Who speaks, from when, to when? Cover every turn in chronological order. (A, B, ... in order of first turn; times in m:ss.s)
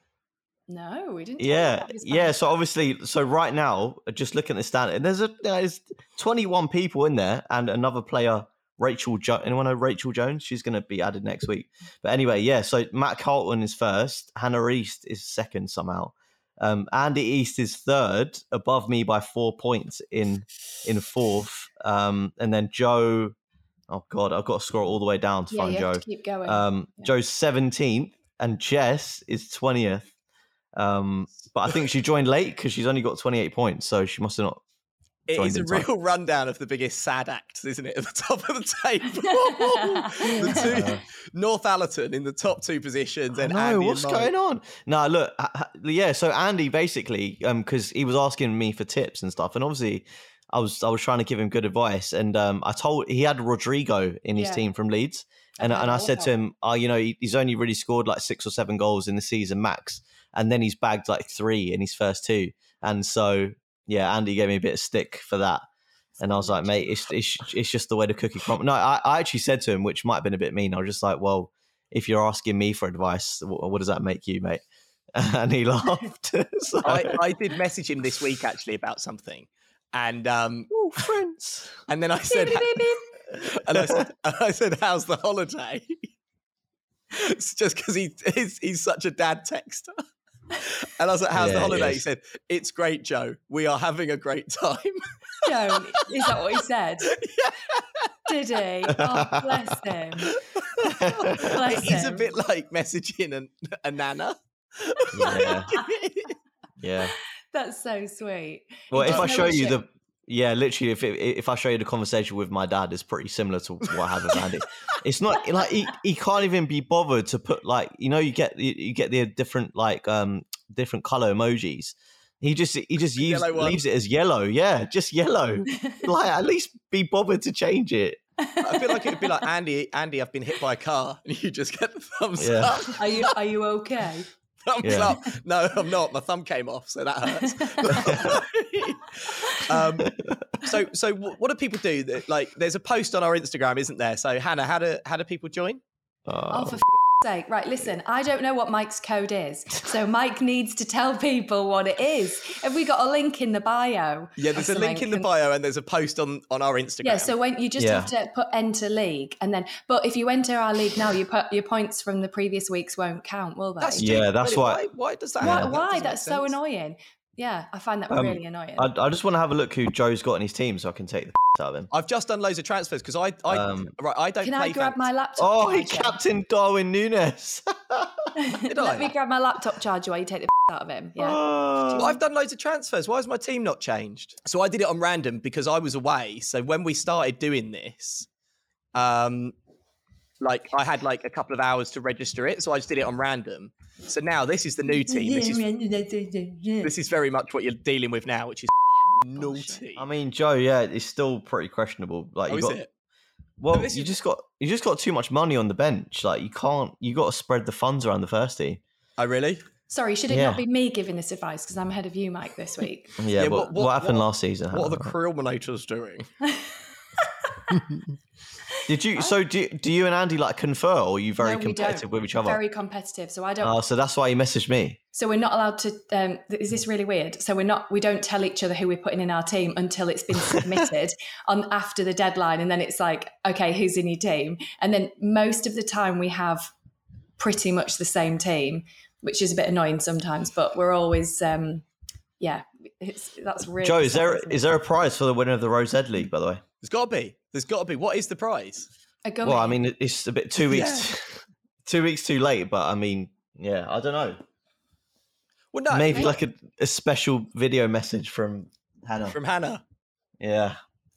0:00.7-0:02.6 A
0:01.4-0:23.4 B
0:23.9-0:30.1 B
0:25.5-0:27.1 A
0:30.8-0:34.6 B
0:35.3-0:44.3 C
0:35.3-0:35.9 B
0:39.8-0:40.9 A
0:40.4-0:41.0 B
0:43.4-1:05.6 B
0:54.3-0:54.6 A
0:55.6-0:56.3 A
1:06.2-1:06.9 A
1:06.2-1:14.6 B
1:15.1-1:17.1 B
1:16.8-1:20.7 C
1:20.7-1:21.7 B
1:21.9-1:26.0 C
1:22.3-1:23.0 A
1:27.2-1:29.9 C
1:30.8-1:35.8 C
1:31.3-1:32.0 B
1:35.4-1:37.1 A
1:37.1-1:38.1 C
1:38.3-1:40.3 A
1:38.9-1:39.6 B
1:40.6-1:46.3 C
1:40.8-1:41.8 B
1:41.2-1:42.3 A
1:45.1-1:45.7 B
1:45.2-1:45.8 A
1:46.8-1:47.1 B
1:47.5-1:49.8 A
1:48.9-2:08.2 B
1:49.0-1:49.5 C
2:03.0-2:03.8 C
2:05.8-2:06.0 A
2:08.4-2:09.3 A
2:08.6-2:13.3 C
2:12.4-2:12.7 B
2:13.0-2:14.3 A
2:14.6-2:25.8 C
2:14.8-2:15.2 B
2:17.4-2:18.3 A
2:18.1-2:18.3 B
2:20.0-2:20.3 B
2:26.3-2:26.8 B
2:26.5-2:35.3 A
2:34.4-2:37.3 C
2:37.0-2:44.1 A
2:37.8-2:38.1 B
2:43.8-2:46.6 C
2:44.0-2:44.8 B
2:45.4-2:45.8 B
2:45.4-2:48.9 A
2:48.1-2:51.9 B
2:51.9-2:55.1 C
2:53.5-2:53.9 B
2:54.4-2:56.2 A
2:55.4-2:58.3 B
2:58.4-3:02.2 A
2:58.7-2:59.1 C
3:01.2-3:02.2 B
3:02.0-3:08.3 C
3:08.9-3:09.5 C
3:10.4-3:15.6 C
3:14.8-3:16.9 A
3:16.8-3:20.1 C
3:18.9-3:19.8 A
3:20.0-3:22.8 B
3:22.5-3:22.9 C
3:23.6-3:28.8 B
3:23.7-3:24.1 C
3:29.2-3:29.6 C
3:29.9-3:33.2 A
3:30.3-3:30.6 B
3:33.2-3:35.1 B
3:33.4-3:36.3 C
3:38.9-3:42.6 B
3:41.4-3:43.8 A
3:43.6-3:45.0 B
3:45.1-3:56.7 A
3:57.4-4:01.8 A
4:02.4-4:04.7 A
4:03.8-4:06.6 B
4:06.8-4:08.9 C
4:09.2-4:09.8 A
4:09.4-4:11.2 B
4:10.6-4:11.1 C
4:11.8-4:14.4 B
4:15.7-4:16.4 C
4:15.9-4:19.4 B
4:19.3-4:19.8 C
4:20.4-4:20.8 B